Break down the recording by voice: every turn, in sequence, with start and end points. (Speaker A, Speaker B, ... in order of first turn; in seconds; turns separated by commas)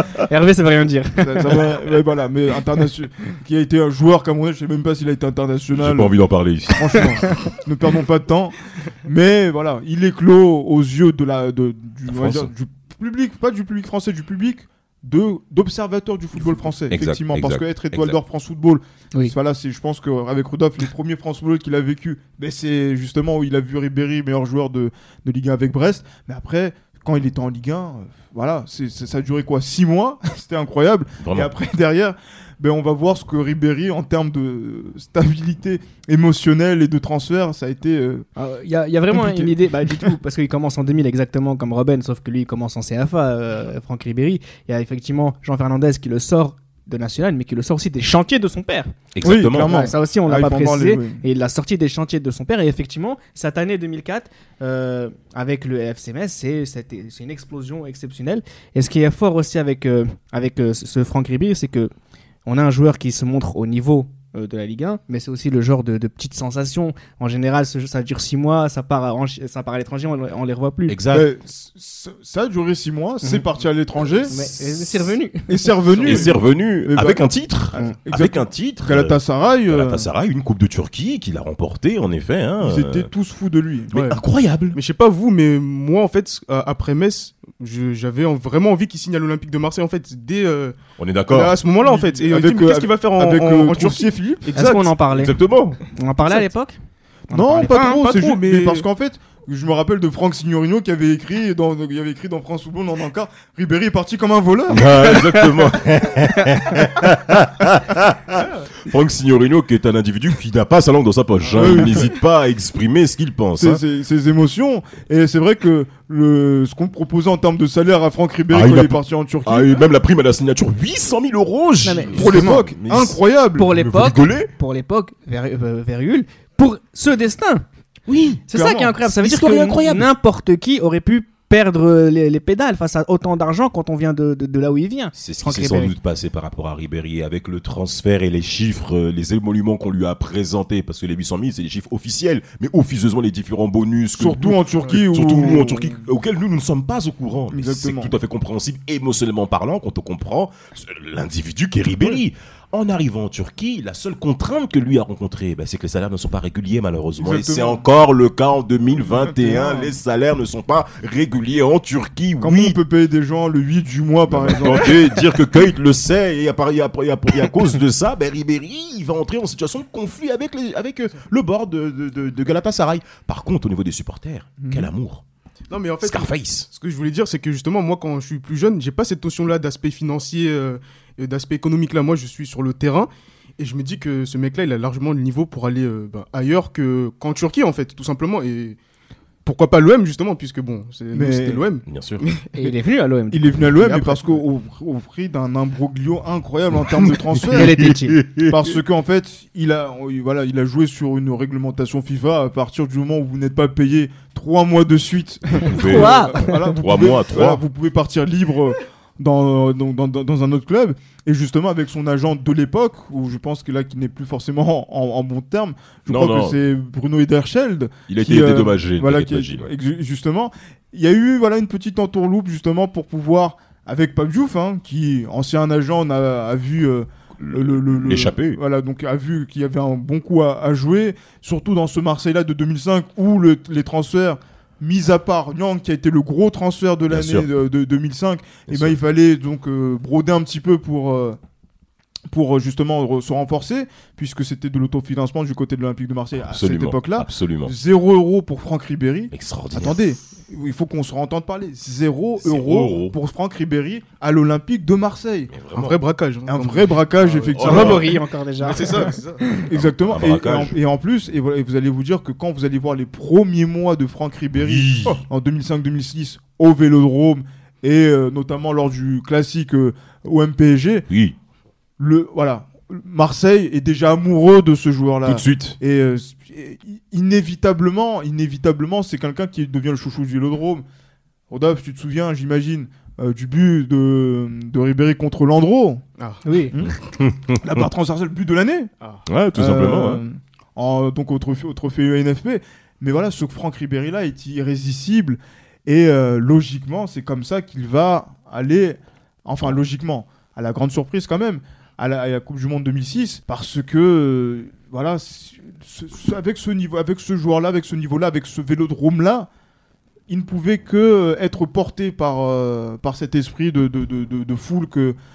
Speaker A: 0.3-1.7, Speaker B: 1.2-6.2, Speaker C: 5.7-7.2, Speaker B: 6.7-38.3, Speaker C: 12.1-12.5, Speaker C: 16.9-18.2, Speaker C: 31.2-31.5, Speaker A: 38.4-48.9, Speaker B: 39.1-40.1, Speaker C: 49.1-49.8, Speaker B: 49.2-51.2, Speaker A: 49.6-61.9, Speaker A: 62.5-71.0, Speaker C: 70.9-71.3, Speaker B: 71.1-74.5, Speaker A: 74.3-75.8, Speaker B: 75.5-80.1, Speaker C: 76.0-83.1, Speaker B: 82.6-83.9, Speaker C: 83.9-84.8, Speaker D: 83.9-84.2, Speaker D: 84.7-90.8, Speaker C: 91.0-91.6, Speaker D: 91.3-94.9, Speaker B: 91.8-94.5, Speaker A: 94.5-95.3, Speaker C: 95.1-95.8, Speaker A: 95.9-96.8, Speaker A: 97.3-98.0, Speaker B: 97.3-105.5, Speaker D: 97.8-98.8, Speaker C: 104.7-113.8, Speaker B: 111.5-112.2, Speaker B: 113.6-119.8, Speaker C: 118.5-124.5, Speaker A: 121.8-122.6, Speaker B: 122.1-123.7, Speaker A: 123.5-127.6, Speaker C: 128.1-128.4, Speaker A: 128.5-135.9, Speaker B: 128.5-128.9, Speaker C: 129.0-130.1, Speaker C: 135.2-162.8, Speaker B: 144.1-146.0, Speaker B: 147.5-148.1, Speaker B: 157.2-157.8, Speaker B: 159.0-159.9, Speaker B: 162.4-165.2, Speaker C: 164.3-175.2, Speaker B: 174.6-174.9, Speaker D: 175.7-188.8, Speaker C: 176.0-176.7, Speaker D: 189.4-192.7, Speaker B: 191.1-191.6, Speaker C: 191.9-192.2, Speaker A: 192.5-193.6, Speaker B: 193.3-197.9, Speaker D: 193.8-194.3, Speaker C: 196.9-198.7, Speaker A: 197.5-198.2, Speaker B: 198.4-241.4, Speaker C: 205.6-207.6, Speaker A: 205.8-206.8, Speaker C: 216.1-216.6, Speaker C: 218.1-219.7, Speaker C: 227.4-228.6, Speaker C: 237.1-237.5, Speaker C: 238.7-238.9, Speaker B: 242.3-255.5, Speaker C: 246.5-247.7, Speaker C: 249.3-250.0, Speaker C: 252.4-253.1, Speaker C: 255.5-256.0, Speaker D: 255.7-259.4, Speaker B: 256.4-258.1, Speaker C: 257.5-258.1, Speaker A: 257.6-259.6, Speaker B: 259.7-271.1, Speaker C: 259.7-260.8, Speaker C: 264.6-265.2, Speaker C: 271.1-271.4, Speaker B: 272.0-280.8, Speaker C: 275.2-275.8, Speaker B: 281.5-286.0, Speaker A: 286.4-286.7, Speaker C: 286.8-287.8, Speaker B: 287.6-288.9, Speaker C: 289.3-290.2, Speaker B: 289.5-309.5, Speaker B: 310.3-315.1